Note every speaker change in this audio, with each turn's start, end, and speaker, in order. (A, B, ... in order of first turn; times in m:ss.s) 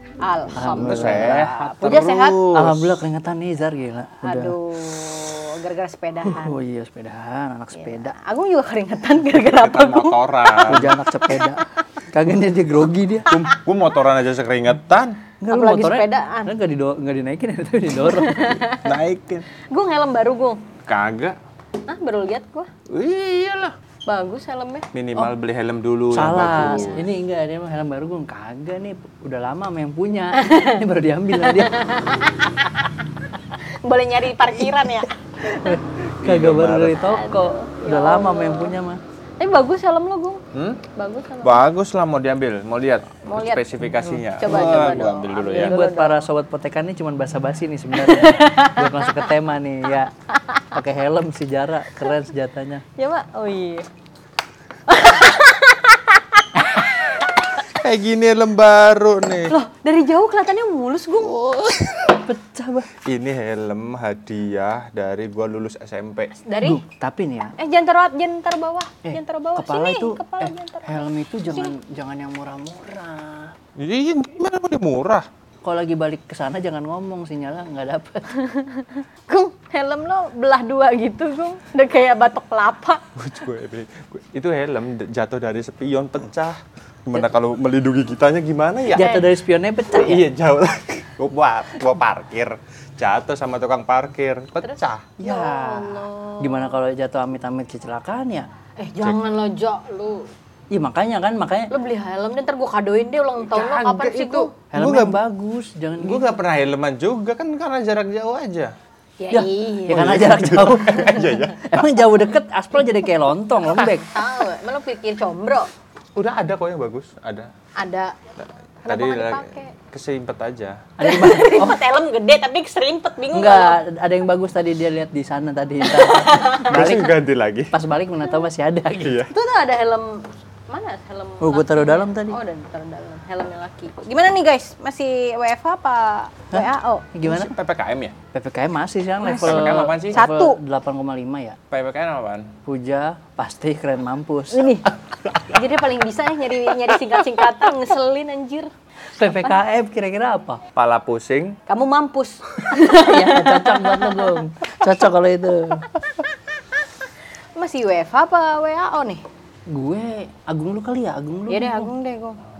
0:00.2-0:02.4 A
0:00.6-0:04.6 B
0:00.7-0:03.0 C
0:04.2-0:06.6 A
0:06.2-0:08.2 B
0:07.8-0:10.6 A
0:09.4-0:10.9 C
0:10.7-0:13.4 B
0:13.3-0:15.2 C
0:15.4-0:18.6 B
0:15.5-0:16.5 A
0:18.0-0:18.9 A
0:18.8-0:19.5 C
0:19.7-0:20.6 A
0:20.9-0:21.4 C
0:21.9-0:22.7 A
0:22.9-0:23.7 C
0:24.1-0:24.9 A
0:24.9-0:27.1 C
0:26.1-0:31.7 B
0:26.6-0:27.0 A
0:30.4-0:30.7 A
0:31.4-0:32.9 A
0:33.5-0:35.8 A
0:35.6-0:39.0 B
0:36.2-0:37.1 C
0:37.0-0:38.8 A
0:39.4-0:40.4 A
0:40.5-0:40.8 C
0:41.0-0:41.6 A
0:41.4-0:45.8 C
0:43.2-0:43.7 A
0:44.3-0:46.3 A
0:45.5-0:50.1 B
0:48.0-0:49.3 A
0:50.7-0:52.8 B
0:53.0-0:53.9 A
0:54.9-0:57.3 A
0:57.8-0:59.5 C
0:59.5-1:01.4 A
1:01.3-1:02.2 C
1:02.2-1:02.9 B
1:03.0-1:06.3 C
1:06.4-1:06.8 A
1:06.6-1:07.6 B
1:07.6-1:11.7 A
1:09.0-1:13.5 B
1:13.8-1:15.3 C
1:15.6-1:18.2 B
1:18.4-1:23.0 A
1:23.2-1:29.1 C
1:28.9-1:29.3 A
1:28.9-1:30.2 B
1:29.9-1:35.1 C
1:34.6-1:36.7 A
1:35.2-1:38.5 B
1:38.8-1:40.3 A
1:40.7-1:41.7 B
1:41.7-1:44.5 A
1:43.4-1:45.2 C
1:44.7-1:46.3 B
1:46.0-1:48.7 C
1:49.2-1:50.4 A
1:49.3-1:54.1 B
1:49.9-1:51.7 C
1:53.6-1:55.7 A
1:56.2-1:57.5 C
1:57.8-1:58.2 A
1:58.8-1:59.7 A
1:58.9-2:00.8 C
2:01.0-2:01.8 B
2:01.0-2:03.8 A
2:03.3-2:07.2 B
2:05.8-2:06.9 A
2:06.7-2:07.8 C
2:07.7-2:09.3 B
2:09.0-2:09.3 C
2:09.3-2:17.1 A
2:11.4-2:12.4 B
2:16.5-2:17.5 B
2:17.2-2:18.2 C
2:18.3-2:21.6 B
2:19.2-2:20.6 A
2:19.3-2:20.2 C
2:21.7-2:22.5 C
2:22.7-2:24.8 B
2:24.5-2:24.9 A
2:25.5-2:29.6 A
2:29.2-2:30.6 B
2:30.8-2:31.6 C
2:31.7-2:34.4 A
2:32.9-2:35.9 B
2:37.6-2:39.2 A
2:39.7-2:41.9 B
2:41.5-2:42.4 A